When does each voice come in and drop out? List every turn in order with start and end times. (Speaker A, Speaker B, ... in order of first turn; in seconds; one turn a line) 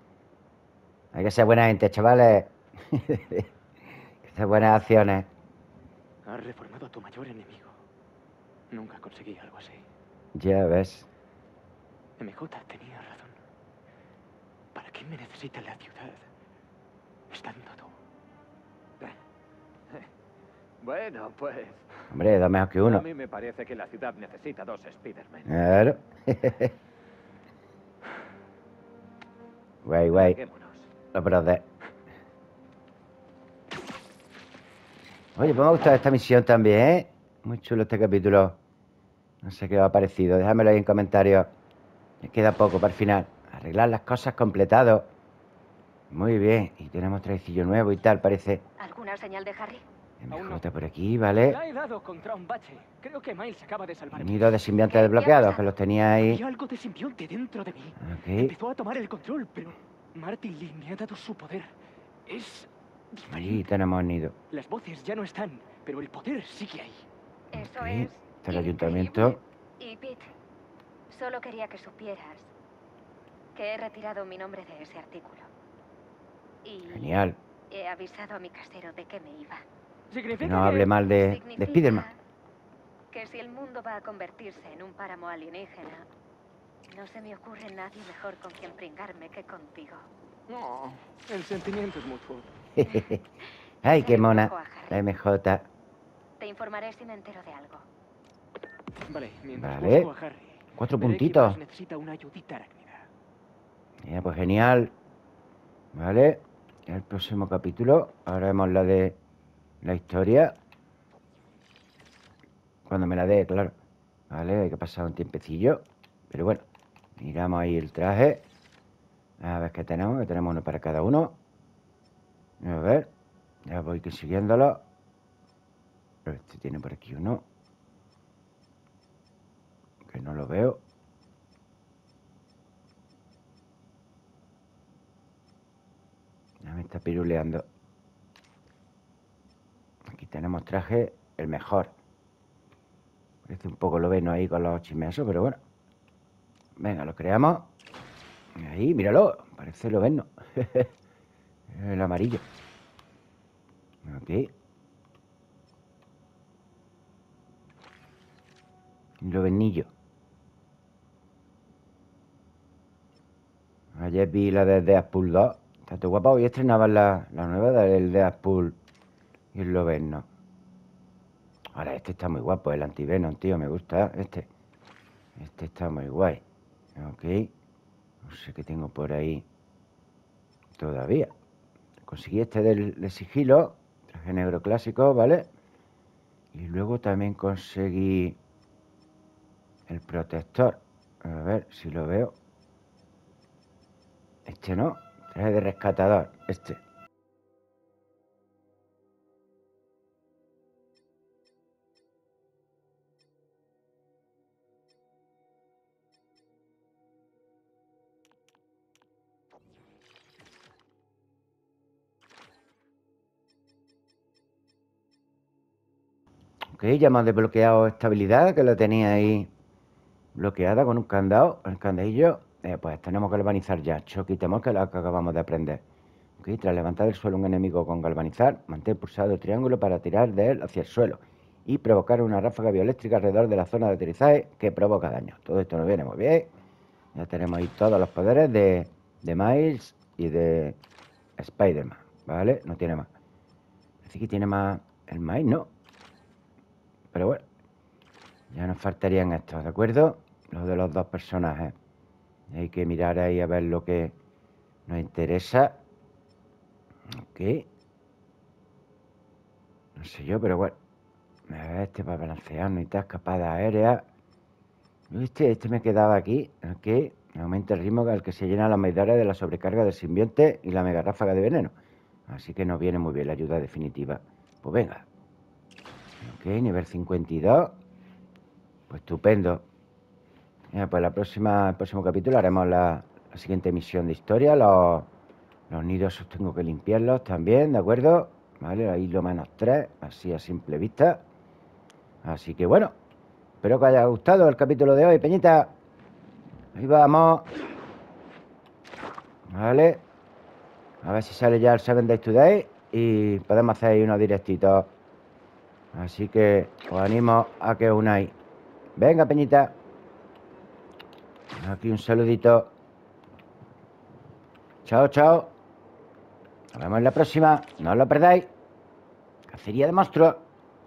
Speaker A: 1.1-3.5
Speaker A: 4.2-5.3
Speaker B: 6.2-7.8
Speaker B: 8.7-9.8
Speaker A: 10.4-11.1
Speaker B: 12.2-13.4
Speaker B: 14.8-16.3
Speaker B: 17.3-17.9
Speaker C: 20.8-21.9
Speaker A: 22.1-23.1
Speaker C: 22.8-25.6
Speaker A: 25.5-26.7
Speaker A: 29.8-30.4
Speaker C: 30.1-30.9
Speaker A: 31.1-31.6
Speaker A: 35.4-38.6
Speaker A: 39.4-41.5
Speaker A: 42.2-45.1
Speaker A: 46.1-48.6
Speaker D: 48.8-49.8
Speaker A: 50.2-51.6
Speaker B: 50.3-50.6
Speaker B: 51.5-54.5
Speaker A: 54.1-56.4
Speaker D: 54.9-55.6
Speaker B: 56.2-61.7
Speaker A: 58.0-58.5
Speaker B: 62.3-63.6
Speaker A: 63.3-64.4
Speaker B: 64.5-67.0
Speaker A: 67.5-69.4
Speaker D: 67.5-70.3
Speaker D: 71.1-72.5
Speaker D: 73.5-75.5
Speaker D: 76.6-77.1
Speaker A: 76.9-77.4
Speaker D: 77.7-79.6
Speaker B: 80.1-80.9
Speaker A: 80.3-82.1
Speaker D: 81.0-82.2
Speaker D: 83.1-86.1
Speaker D: 86.9-90.0
Speaker B: 90.5-92.5
Speaker A: 92.8-93.2
Speaker D: 92.8-93.2
Speaker A: 93.8-95.7
Speaker D: 93.8-95.0
Speaker D: 96.4-97.8
Speaker B: 99.1-103.1
Speaker A: 99.5-100.1
Speaker A: 100.8-101.6
Speaker A: 104.0-104.9
Speaker A: 105.9-109.2
Speaker A: 109.8-110.6
Speaker A: 112.9-113.8
Speaker A: 114.3-116.6
Speaker A: 117.2-118.4
Speaker A: 119.4-121.4
Speaker A: 122.6-123.1
Speaker A: 123.7-124.8
Speaker A: 126.2-127.5
Speaker A: 130.1-130.8
Speaker A: 136.6-137.7
Speaker A: 140.1-141.9
Speaker A: 143.4-145.6
Speaker A: 146.8-147.7
Speaker A: 148.6-150.9
Speaker A: 151.7-152.4
Speaker A: 154.0-154.5
Speaker A: 159.2-159.9
Speaker A: 163.9-168.8
Speaker A: 169.5-170.3
Speaker A: 171.7-174.5
Speaker A: 175.4-176.4
Speaker A: 177.0-177.5
Speaker A: 178.2-179.5
Speaker A: 180.7-181.3
Speaker A: 182.1-185.5
Speaker A: 186.5-188.4
Speaker A: 189.9-192.3
Speaker A: 194.5-196.8
Speaker A: 216.7-219.5
Speaker A: 220.3-225.8
Speaker A: 226.4-236.5
Speaker A: 237.2-240.8
Speaker A: 241.4-243.1
Speaker A: 244.0-245.7
Speaker A: 247.1-247.4
Speaker A: 248.5-251.8
Speaker A: 252.5-254.2
Speaker A: 254.9-255.8
Speaker A: 257.1-257.7
Speaker A: 260.0-260.8
Speaker A: 261.5-264.1
Speaker A: 265.1-271.8
Speaker A: 272.3-275.1
Speaker A: 276.2-277.8
Speaker A: 278.9-279.7
Speaker A: 280.7-285.1
Speaker A: 285.7-291.2
Speaker A: 292.2-292.9
Speaker A: 293.6-295.7
Speaker A: 296.8-297.5
Speaker A: 299.5-300.0
Speaker A: 301.0-304.9
Speaker A: 305.9-308.4
Speaker A: 309.0-309.8
Speaker A: 311.6-312.7
Speaker A: 314.9-315.5
Speaker A: 316.7-318.5
Speaker A: 319.5-320.4